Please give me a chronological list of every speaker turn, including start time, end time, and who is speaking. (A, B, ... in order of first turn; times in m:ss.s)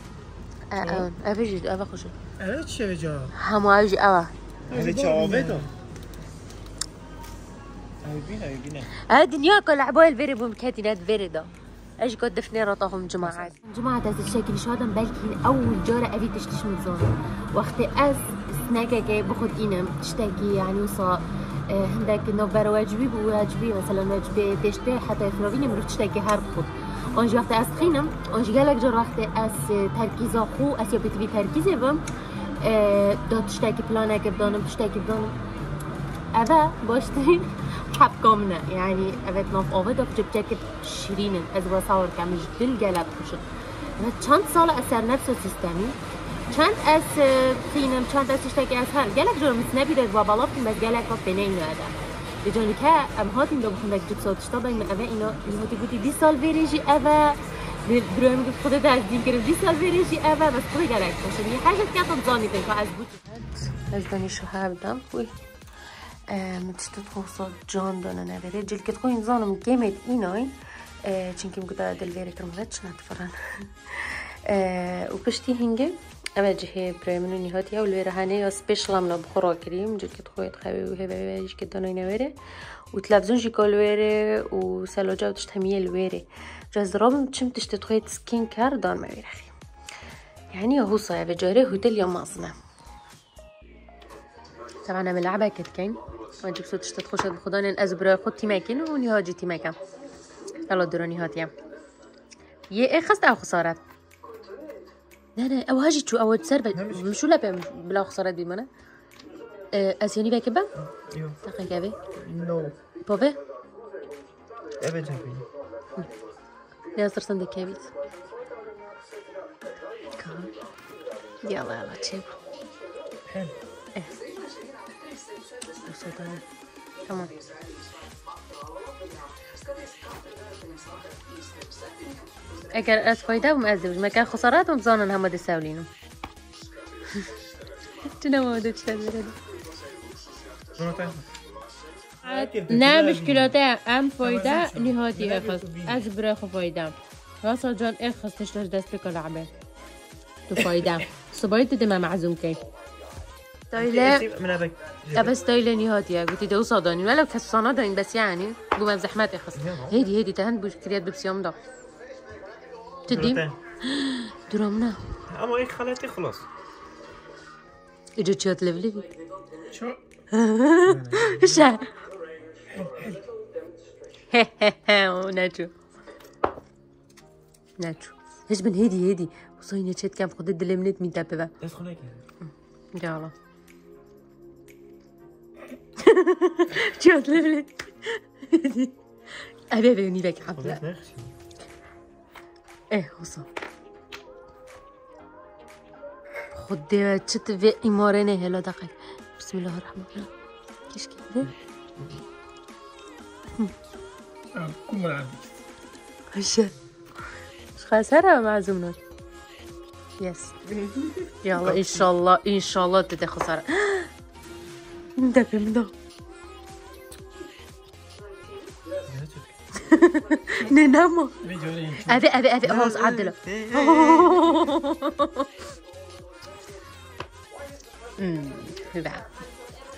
0:00.7-0:02.2 A
0:02.4-0:03.3 B
0:03.3-0:04.3 A
0:04.7-0:05.7 C
0:04.7-0:05.7 B
0:08.0-0:08.9 C
0:09.0-0:32.0 A
0:32.6-0:35.4 A
0:36.3-0:43.4 A
0:44.0-1:05.3 A
1:06.3-1:22.4 A
1:22.9-1:29.5 A
1:30.5-1:32.6 A
1:34.8-1:39.8 A
1:40.7-1:41.5 A
1:42.7-1:43.8 A
1:45.4-1:48.7 A
1:46.7-1:47.0 C
1:49.7-1:50.7 A
1:50.8-1:51.4 C
1:51.4-1:52.0 A
1:52.2-1:52.8 C
1:53.0-1:53.4 A
1:54.8-1:55.4 C
1:57.0-1:57.9 A
2:00.2-2:00.5 A
2:01.4-2:02.4 A
2:03.3-2:03.5 C
2:05.7-2:06.4 A
2:07.0-2:07.5 A
2:12.7-2:15.9 A
2:18.0-2:19.4 A
2:20.7-2:21.2 C
2:22.2-2:23.5 C
2:22.2-2:29.5 A
2:24.3-2:26.0 C
2:30.5-2:32.6 A
2:33.7-2:34.3 A
2:33.7-2:35.4 C
2:35.1-2:41.6 A
2:39.6-2:40.0 C
2:43.1-2:45.0 A
2:43.1-2:43.6 C
2:45.3-2:46.4 C
2:48.2-2:49.1 A
2:49.7-2:50.0 B
2:50.3-2:52.0 A
2:50.8-2:51.6 C
2:52.7-2:53.2 B
2:54.3-2:55.7 A
2:57.8-3:01.5 A
3:01.6-3:02.2 C
3:02.4-3:03.3 A
3:06.0-3:10.8 A
3:10.6-3:11.3 C
3:12.9-3:13.5 A
3:16.5-3:20.3 A
3:20.9-3:21.5 A
3:24.5-3:25.5 B
3:26.3-3:26.7 A
3:27.7-3:29.0 A
3:30.2-3:30.6 A
3:31.4-3:34.1 A
3:31.6-3:32.0 B
3:35.2-3:35.9 A
3:39.0-3:39.6 C
3:39.7-3:41.4 A
3:41.4-3:42.3 B
3:42.1-3:45.5 A
3:42.6-3:44.7 C
3:48.2-3:49.3 A